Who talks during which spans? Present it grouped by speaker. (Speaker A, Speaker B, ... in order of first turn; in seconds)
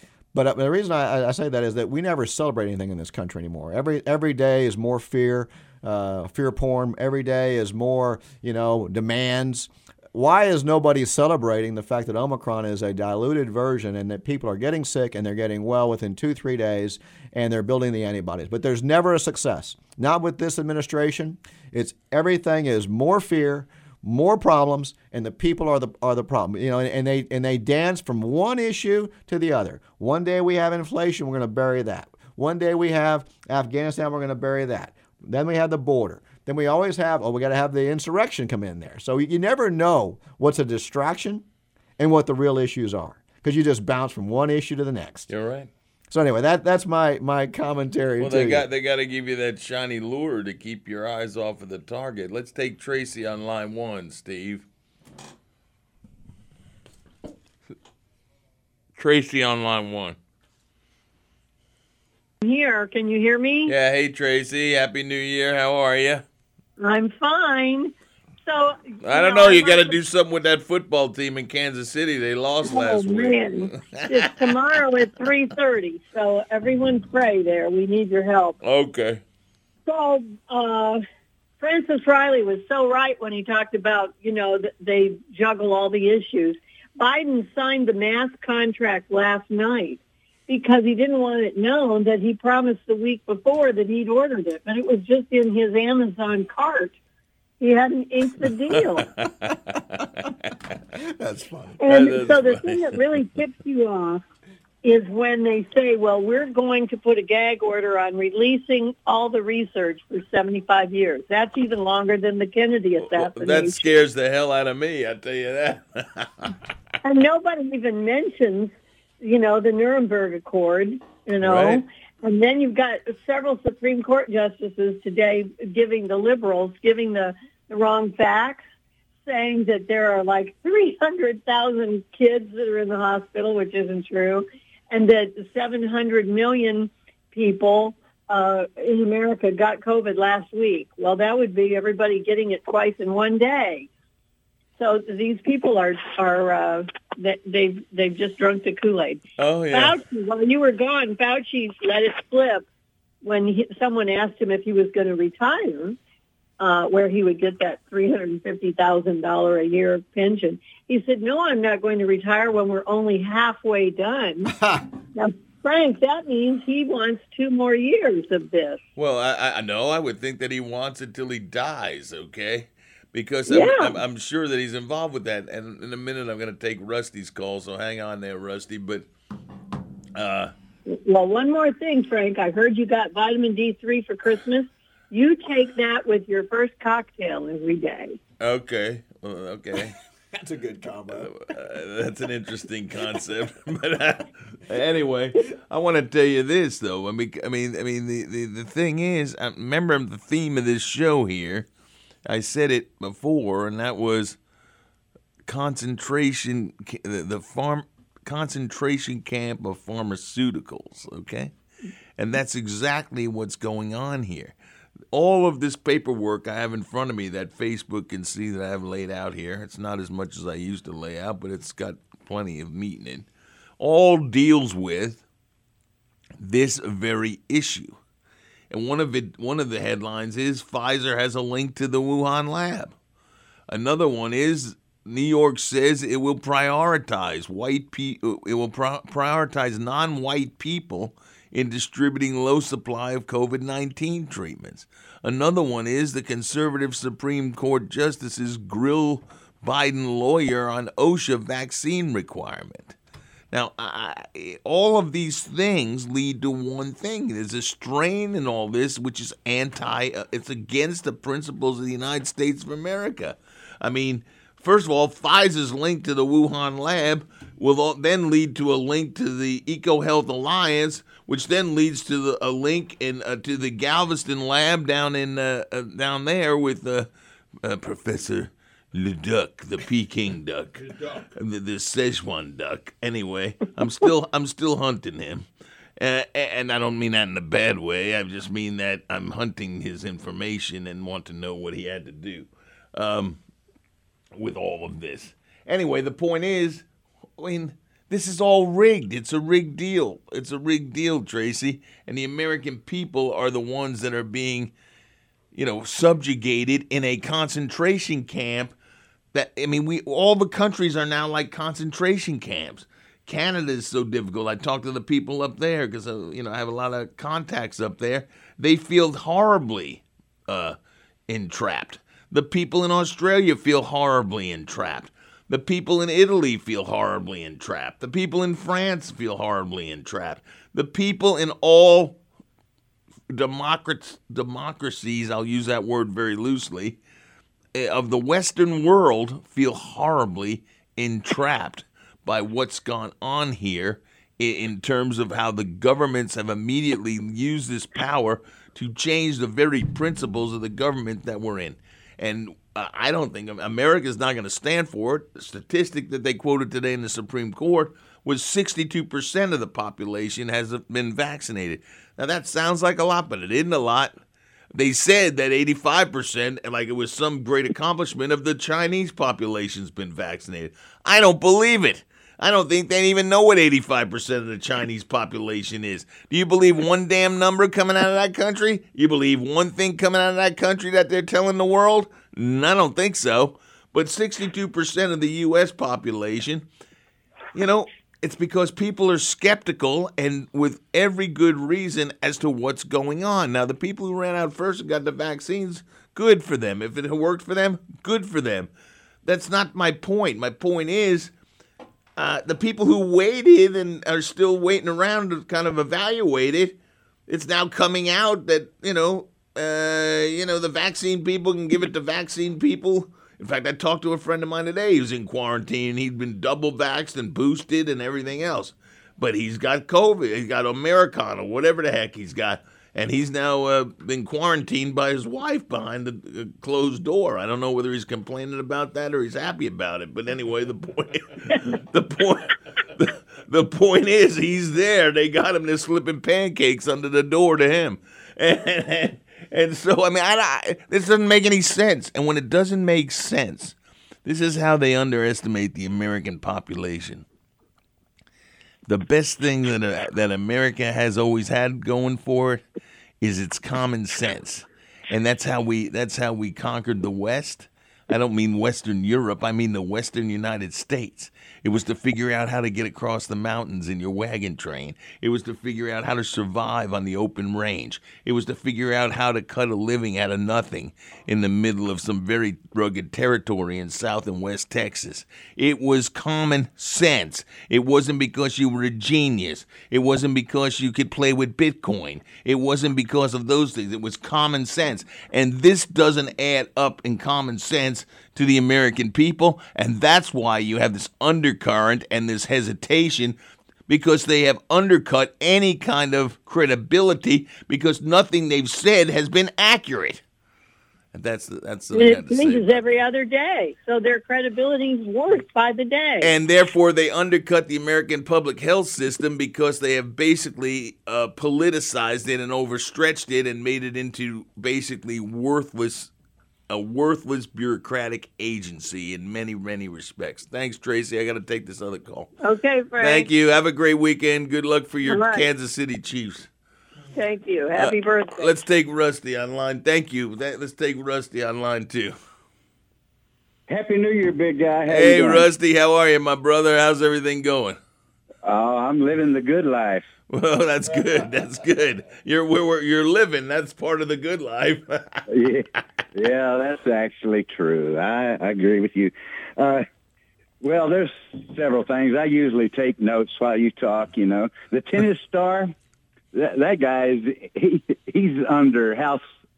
Speaker A: 0.3-41.5, 42.0-45.3, 46.1-48.7, 101.2-101.8, 164.6-164.8, 190.3-191.3
Speaker B: 45.3-45.7, 48.2-54.6, 59.0-60.2, 63.7-66.2, 69.0-74.5, 78.6-79.2, 98.7-100.1, 101.9-103.2, 113.0-116.5, 121.4-121.8, 149.4-150.0, 169.0-179.1, 180.2-180.5, 188.4-189.9, 191.1-201.7, 202.3-204.4, 205.4-211.5, 212.2-214.6, 215.1-223.3, 223.8-225.2, 226.4-228.0, 228.7-232.9, 233.7-253.0, 253.5-277.1, 277.6-285.5, 286.0-293.4, 294.4-296.9, 297.4-304.7, 305.6-308.7, 309.3-320.8, 321.3-332.2, 333.3-337.0, 337.8-364.1, 364.7-386.6, 387.6-398.7, 399.2-401.3, 402.2-406.8, 407.3-447.2, 448.9-452.6, 453.2-493.4, 493.9-500.2, 501.1-502.9, 506.2-516.1, 516.7-522.3, 523.0-526.5, 527.8-532.1, 534.9-537.8, 540.3-545.2
Speaker C: 62.4-63.7, 66.8-67.9, 68.5-70.0, 72.7-78.6, 79.9-81.0, 81.6-97.0, 97.6-99.1, 101.8-104.2, 104.8-113.9, 117.0-128.6, 129.3-143.9, 144.8-152.7, 153.2-156.0, 156.6-164.5, 165.2-168.8, 173.5-174.0, 180.9-188.2, 501.9-506.3, 522.4-523.3, 525.1-525.5, 527.1-528.5
Speaker D: 533.7-535.5, 538.4-540.1, 545.3-549.9, 550.6-555.7, 556.3-559.2